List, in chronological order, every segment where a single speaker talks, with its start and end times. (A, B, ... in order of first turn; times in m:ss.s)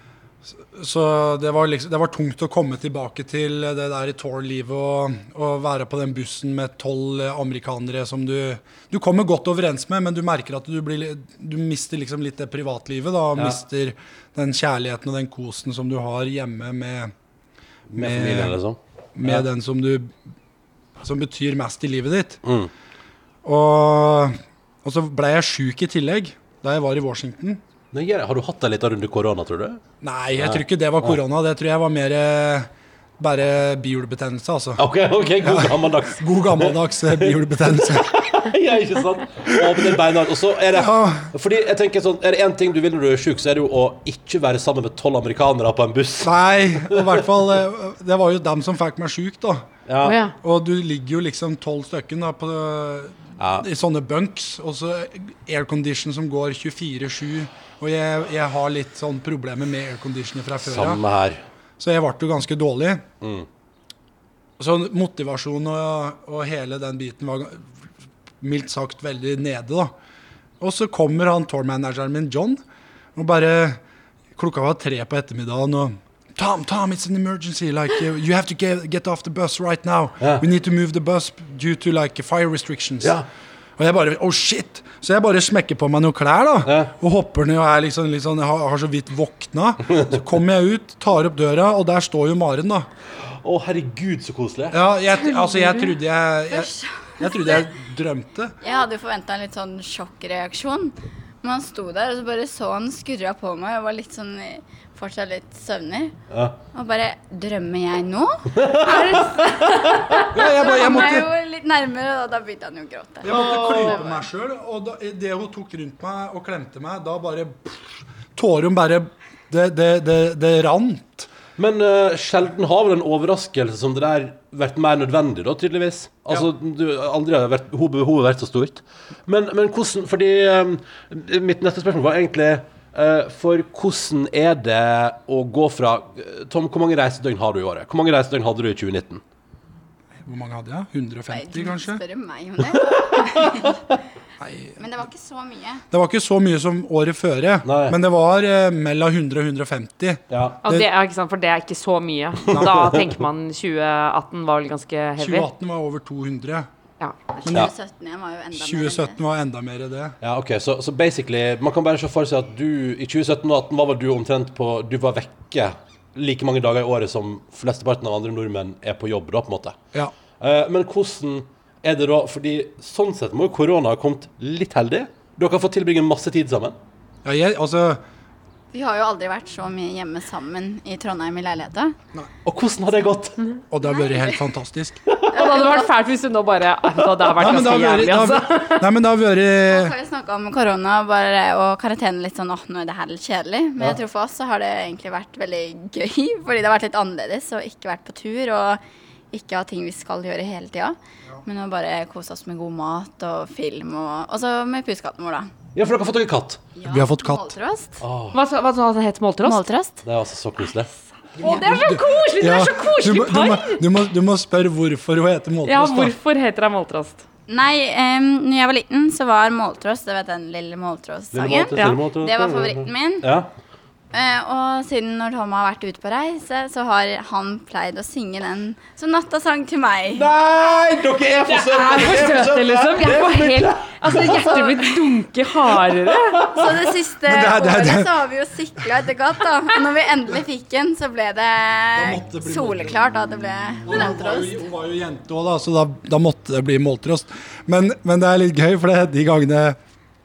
0:00.4-0:17.1 A
0:17.9-0:19.4 B
0:18.0-0:18.6 A
0:19.2-0:20.1 A
0:21.0-0:22.4 A
0:22.4-0:22.7 B
0:23.4-0:27.6 A
0:27.9-0:29.8 B
0:30.0-0:34.8 A
0:30.4-0:31.2 B
0:34.8-0:47.2 B
0:35.4-0:38.1 A
0:39.4-0:40.0 A
0:40.7-0:41.3 A
0:46.2-0:49.7 A
0:49.9-0:50.2 B
0:50.0-0:50.3 C
0:50.4-1:01.0 A
0:53.4-0:53.6 B
1:00.6-1:01.4 B
1:01.8-1:03.0 A
1:03.2-1:03.5 B
1:04.6-1:07.7 A
1:08.4-1:09.9 A
1:10.6-1:12.6 A
1:13.1-1:13.8 A
1:14.3-1:23.2 A
1:23.8-1:32.9 A
1:26.6-1:26.9 B
1:33.4-1:34.8 B
1:34.7-1:38.6 A
1:36.5-1:37.6 D
1:38.6-1:46.1 D
1:46.3-1:46.6 B
1:46.7-1:49.3 D
1:48.6-1:49.2 B
1:48.8-1:51.0 C
1:50.3-1:51.3 A
1:50.4-1:54.2 D
1:53.2-2:01.3 A
1:53.2-1:54.0 B
2:01.6-2:19.2 B
2:20.2-2:22.0 A
2:21.3-2:23.8 D
2:22.7-2:23.7 B
2:24.4-2:24.8 A
2:24.8-2:25.8 D
2:25.9-2:30.9 A
2:27.6-2:28.0 B
2:30.3-2:30.6 B
2:30.6-2:35.5 C
2:32.5-2:32.8 A
2:32.5-2:33.1 B
2:35.2-2:36.7 A
2:37.0-2:37.4 C
2:37.4-2:39.2 D
2:37.4-2:37.7 A
2:38.5-2:40.2 A
2:40.2-2:49.8 B
2:50.4-2:56.8 B
2:57.2-2:58.0 A
2:58.7-3:02.0 D
3:02.4-3:03.4 B
3:03.7-3:05.0 A
3:03.9-3:04.4 D
3:05.3-3:05.9 D
3:05.3-3:08.8 C
3:07.4-3:09.9 A
3:09.7-3:18.8 D
3:19.3-3:25.5 D
3:25.7-3:26.6 B
3:26.8-3:28.0 D
3:26.9-3:27.6 A
3:28.0-3:28.4 B
3:28.3-3:29.6 C
3:29.4-3:30.0 D
3:30.0-3:30.9 B
3:31.4-3:36.1 A
3:31.4-3:33.8 C
3:35.6-3:37.2 C
3:37.5-3:43.3 D
3:41.3-3:43.5 B
3:44.1-3:50.3 D
3:50.1-3:54.8 B
3:51.4-3:56.4 C
3:54.2-3:55.0 D
3:56.1-3:56.9 B
3:56.5-4:04.6 D
3:57.2-3:58.1 A
4:01.9-4:03.0 A
4:03.8-4:09.8 A